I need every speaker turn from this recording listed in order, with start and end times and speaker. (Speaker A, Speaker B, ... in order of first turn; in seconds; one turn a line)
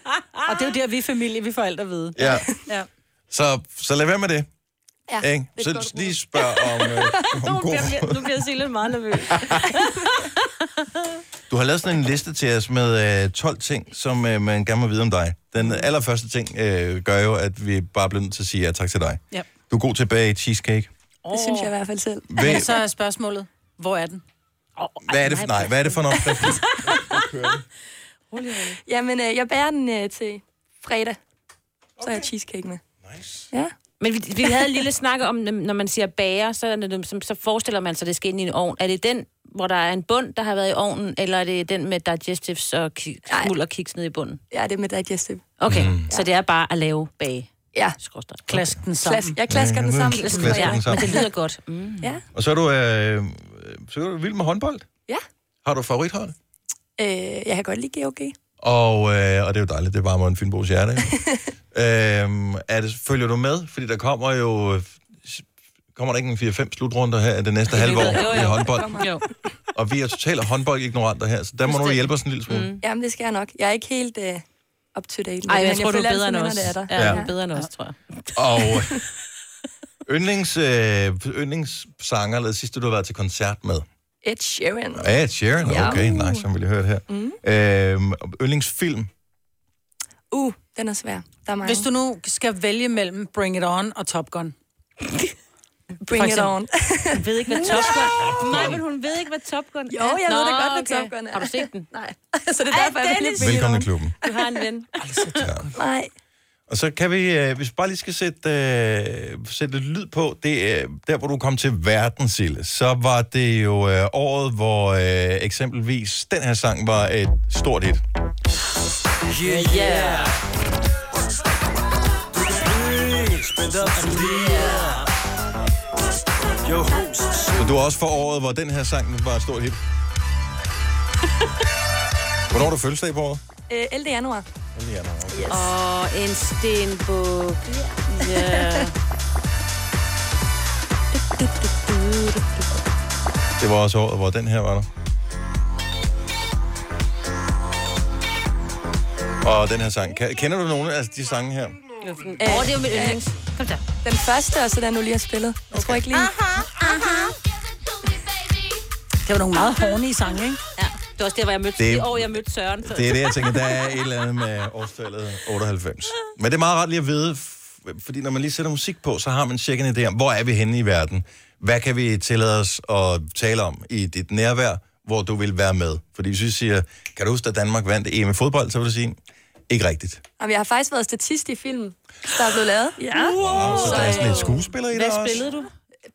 Speaker A: 0.5-2.9
Speaker B: 2.1-2.5
Speaker B: 3.3-4.5
Speaker C: 5.1-7.2
Speaker B: 5.2-8.3
Speaker D: 7.3-10.3
Speaker B: 9.3-9.6
Speaker B: 11.5-20.9
Speaker A: 21.3-21.7
Speaker C: 21.3-22.7
Speaker B: 22.3-22.7
Speaker A: 22.4-24.2
Speaker D: 24.8-27.0
Speaker B: 25.1-27.6
Speaker D: 28.3-28.8
Speaker C: 28.9-31.2
Speaker C: 32.0-32.8
Speaker B: 33.0-33.5
Speaker D: 34.0-44.4
Speaker C: 44.5-45.4
Speaker D: 45.6-47.5
Speaker B: 45.7-46.0
Speaker D: 48.0-48.4
Speaker A: 48.5-49.4
Speaker B: 48.5-48.8
Speaker C: 49.0-51.2
Speaker B: 49.5-51.2
Speaker D: 50.2-52.1
Speaker B: 52.3-54.9
Speaker B: 55.6-56.3
Speaker C: 57.0-58.3
Speaker B: 58.6-61.1
Speaker B: 61.7-69.1
Speaker D: 67.7-69.2
Speaker C: 67.9-69.1
Speaker B: 69.7-72.7
Speaker D: 71.7-72.8
Speaker C: 72.8-74.4
Speaker C: 74.9-77.3
Speaker D: 75.5-78.0
Speaker B: 76.9-77.2
Speaker B: 78.3-79.0
Speaker B: 80.0-83.8
Speaker C: 84.2-86.4
Speaker B: 84.9-89.1
Speaker C: 87.1-87.4
Speaker C: 90.3-91.9
Speaker A: 91.6-94.5
Speaker C: 96.0-98.7
Speaker A: 96.1-96.5
Speaker D: 97.1-101.9
Speaker B: 98.4-98.8
Speaker C: 99.9-104.5
Speaker D: 102.7-104.9
Speaker B: 103.4-104.1
Speaker A: 105.0-105.8
Speaker B: 105.4-105.7
Speaker C: 105.7-106.1
Speaker B: 106.7-118.0
Speaker D: 119.4-120.3
Speaker D: 123.8-125.0
Speaker B: 127.5-129.8
Speaker B: 132.5-133.4
Speaker C: 133.7-134.4
Speaker B: 134.7-135.6
Speaker C: 135.3-135.6
Speaker D: 135.5-138.9
Speaker C: 137.7-138.6
Speaker D: 141.4-142.4
Speaker B: 143.6-144.9
Speaker B: 149.4-151.8
Speaker D: 152.0-153.8
Speaker C: 152.4-153.2
Speaker C: 154.0-156.3
Speaker B: 155.7-156.0
Speaker D: 156.8-157.2
Speaker A: 159.2-160.6
Speaker D: 160.8-163.6
Speaker B: 161.8-179.2
Speaker B: 179.7-180.2
Speaker C: 180.4-184.5
Speaker D: 183.1-185.7
Speaker B: 183.4-185.4